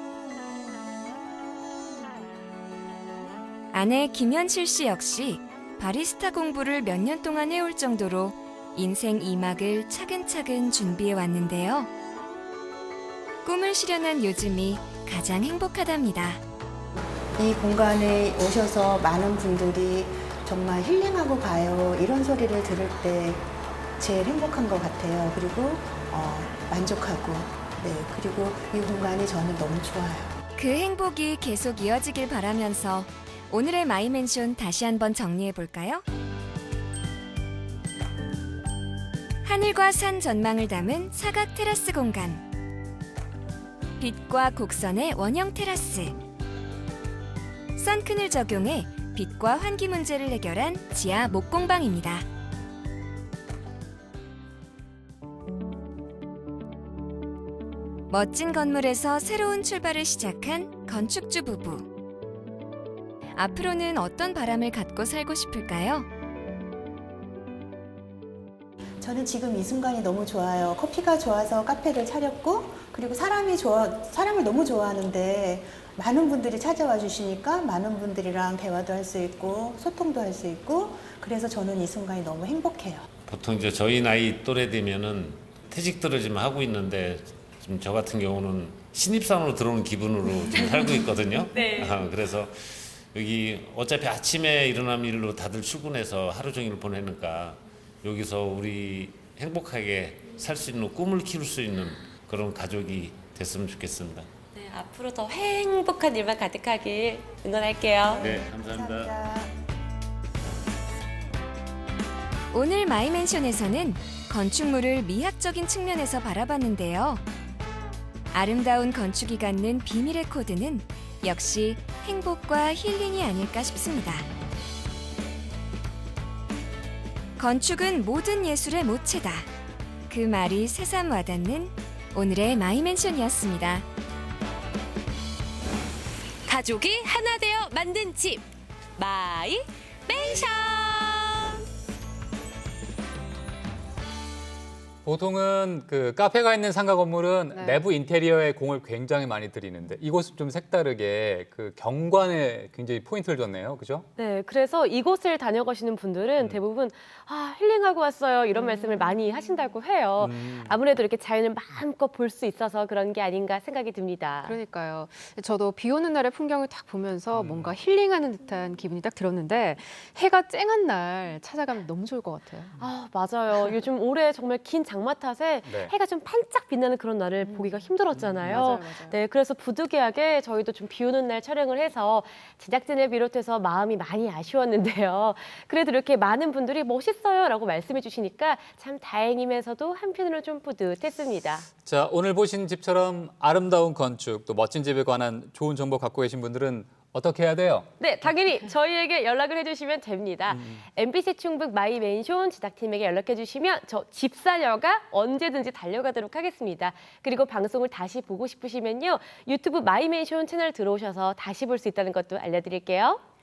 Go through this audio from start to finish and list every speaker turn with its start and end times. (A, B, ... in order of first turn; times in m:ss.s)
0:03.7-0:11.9 A
0:13.4-0:16.4 A
0:17.4-0:23.4 B
0:24.0-0:30.3 B
0:30.6-0:36.0 A
0:39.4-0:42.4 A
0:44.0-0:46.2 A
0:47.8-0:52.3 A
0:58.1-1:01.9 A
1:03.4-1:06.1 A
1:09.0-1:23.0 B
1:23.3-1:44.3 C
1:30.5-1:32.1 D
1:44.5-1:48.2 D
1:48.0-1:49.5 B
1:48.2-1:49.1 C
1:52.5-1:57.2 A
1:58.3-2:04.3 A
2:07.4-2:09.5 A
2:10.1-2:13.9 A
2:16.5-2:18.4 D
2:19.0-2:21.6 D
2:25.0-2:34.1 E
2:27.5-2:27.8 F
2:34.2-2:44.6 D
2:38.5-2:39.1 F
2:40.2-2:40.7 E
2:44.4-2:52.9 F
2:47.3-2:47.8 E
2:52.8-3:11.7 D
2:55.7-2:55.9 E
2:57.4-2:57.9 F
2:58.1-2:58.6 E
2:58.5-2:59.2 F
3:11.8-3:17.9 E
3:18.0-3:33.2 D
3:20.5-3:20.8 E